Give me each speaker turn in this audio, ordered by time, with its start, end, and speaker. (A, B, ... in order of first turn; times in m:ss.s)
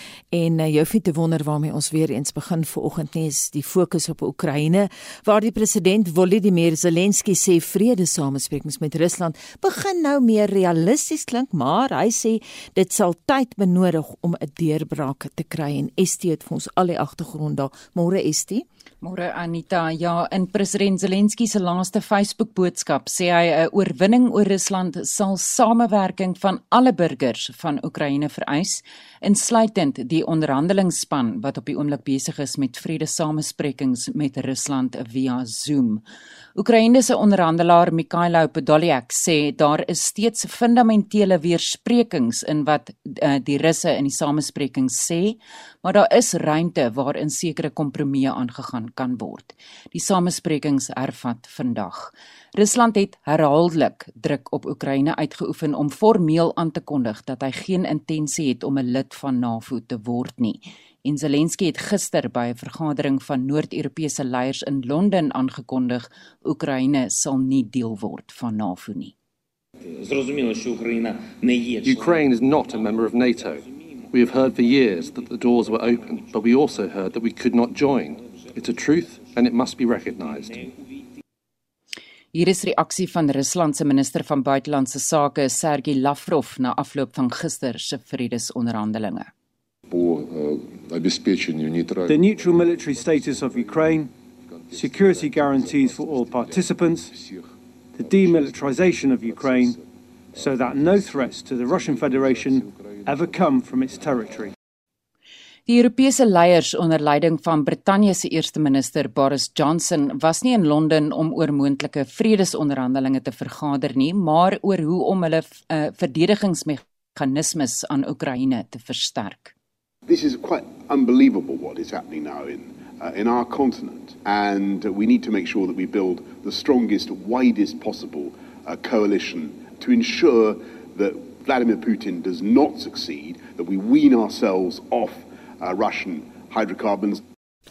0:00.3-0:18.6 A
0:19.0-0:36.0 B
0:36.6-1:09.1 B
1:11.8-1:20.7 C
1:22.3-1:29.3 B
1:29.9-1:32.2 D
1:32.1-1:34.1 E
1:34.7-1:37.2 E
1:34.8-1:37.4 D
1:38.0-1:39.8 E
1:40.4-1:44.5 E
1:45.7-1:59.5 B
2:00.1-2:17.2 D